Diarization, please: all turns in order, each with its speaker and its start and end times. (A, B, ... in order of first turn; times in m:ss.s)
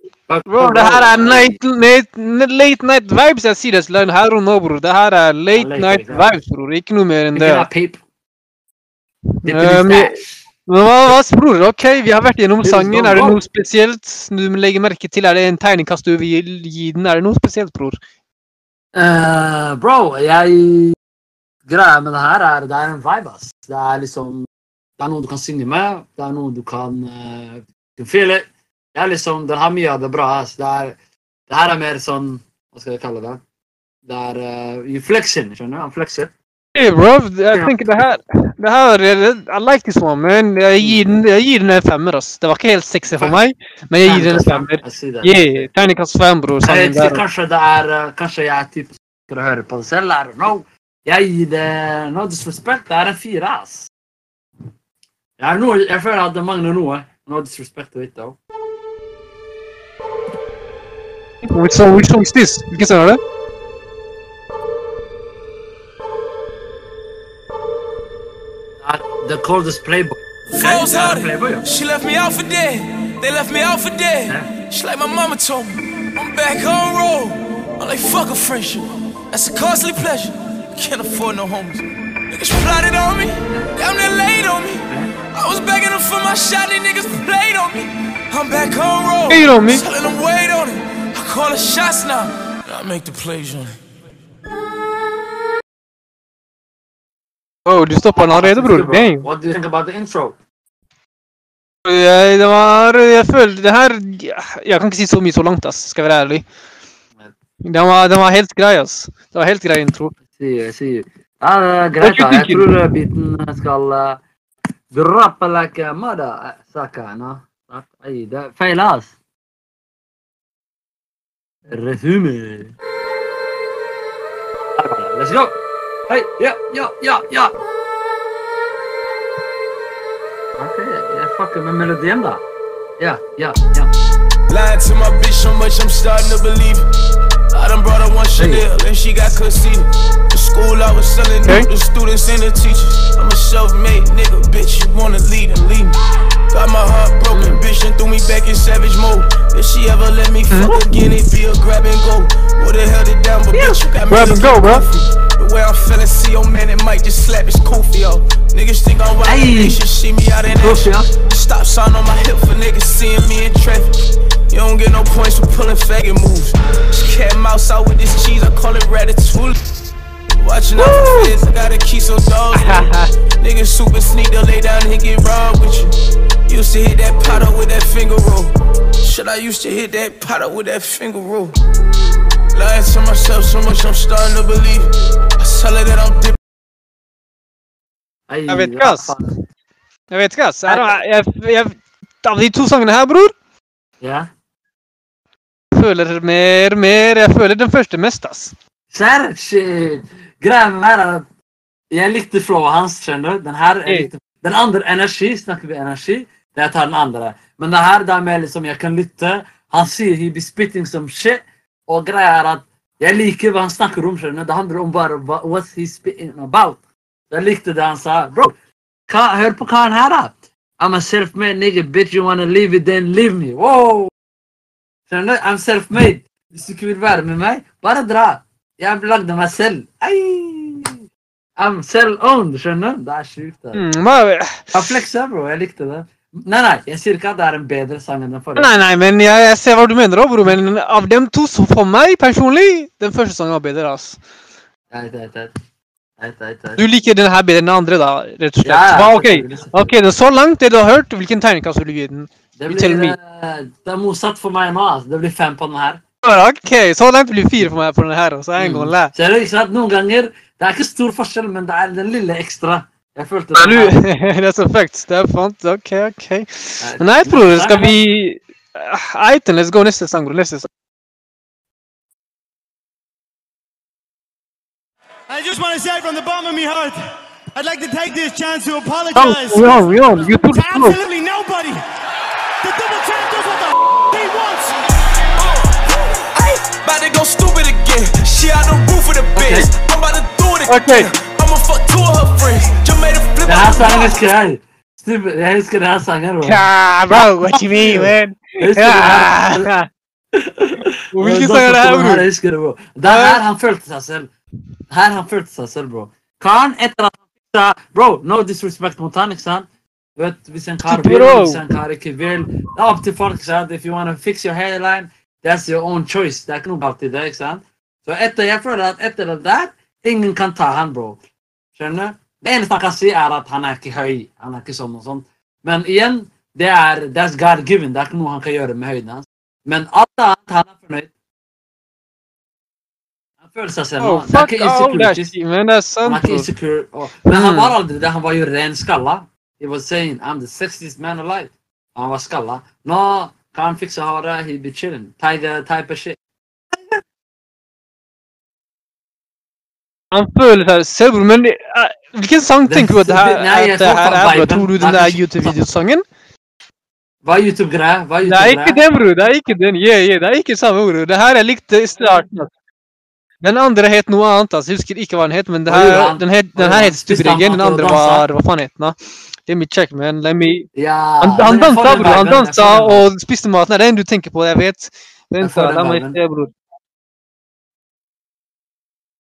0:00.3-0:01.6 A
0:00.5-0:07.7 B
0:05.5-0:06.4 A
0:07.4-0:08.0 A
0:09.4-0:18.0 B
0:09.5-0:10.4 A
0:12.6-0:13.4 A
0:18.9-0:21.0 A
0:21.7-0:24.5 A
0:25.0-0:31.0 A
0:31.5-0:33.4 A
0:34.1-0:36.3 A
0:36.8-0:47.2 B
0:37.5-0:37.8 A
0:40.8-0:41.2 A
0:43.1-0:43.4 A
0:44.0-0:45.7 A
0:46.6-0:53.9 A
0:55.4-0:58.4 A
1:01.4-1:03.2 B
1:08.8-1:11.7 A
1:10.6-1:33.8 C
1:24.9-1:25.1 A
1:29.3-1:29.8 B
1:37.7-1:39.2 B
1:38.1-1:40.4 A
1:41.8-1:46.4 B
1:47.6-1:50.2 B
1:50.4-1:54.2 A
1:52.0-1:52.7 B
1:54.9-1:59.1 A
2:01.7-2:02.8 A
2:04.7-2:07.6 A
2:10.5-2:12.4 A
2:13.0-2:13.9 A
2:14.5-2:16.8 C
2:17.5-2:49.6 C
2:18.4-2:18.6 A
2:27.3-2:27.6 A
2:33.5-2:33.8 A
2:34.1-2:34.8 B
2:39.2-2:39.8 A
2:40.6-2:41.1 A
2:50.4-2:56.0 C
2:50.8-2:51.3 A
2:52.5-2:53.1 B
2:56.5-3:01.6 C
3:02.5-3:06.4 C
3:08.3-3:09.3 A
3:08.5-3:09.2 B
3:10.1-3:13.3 B
3:10.7-3:10.9 A
3:14.0-3:14.3 A
3:15.7-3:18.5 B
3:18.9-3:21.3 A
3:21.9-3:38.5 A
3:39.1-3:44.1 A
3:45.1-3:51.0 A
3:51.6-3:53.9 A
3:53.7-3:54.8 B
3:54.7-3:58.7 A
3:58.6-4:04.2 B
4:04.9-4:05.5 A
4:06.2-4:06.8 A
4:06.8-4:13.2 B
4:08.6-4:09.9 A
4:12.6-4:16.0 A
4:16.2-4:19.1 B
4:18.6-4:24.0 A
4:23.6-4:30.7 B
4:26.8-4:28.0 A
4:35.3-4:37.0 D
4:37.6-4:41.8 D
4:39.2-4:41.0 B
4:42.6-4:44.8 D
4:45.8-4:54.3 C
4:49.3-4:49.7 A
4:50.7-4:51.1 B
4:53.4-4:59.7 A
4:56.4-4:59.9 B
5:00.3-5:04.3 A
5:01.1-5:02.3 B
5:03.0-5:03.4 B
5:04.9-5:21.2 A
5:10.9-5:11.6 B
5:21.8-5:31.1 A
5:33.4-5:35.4 A
5:34.0-5:36.5 B
5:36.0-5:46.2 A
5:37.2-5:37.8 B
5:46.7-5:47.0 A
5:50.1-5:56.0 B
5:52.6-5:55.5 A
5:57.2-5:58.8 A
5:58.2-6:02.5 B
6:03.4-6:09.0 B
6:05.7-6:08.3 A
6:09.5-6:10.7 B
6:10.8-6:13.1 A
6:11.2-6:16.5 B
6:15.4-6:16.2 A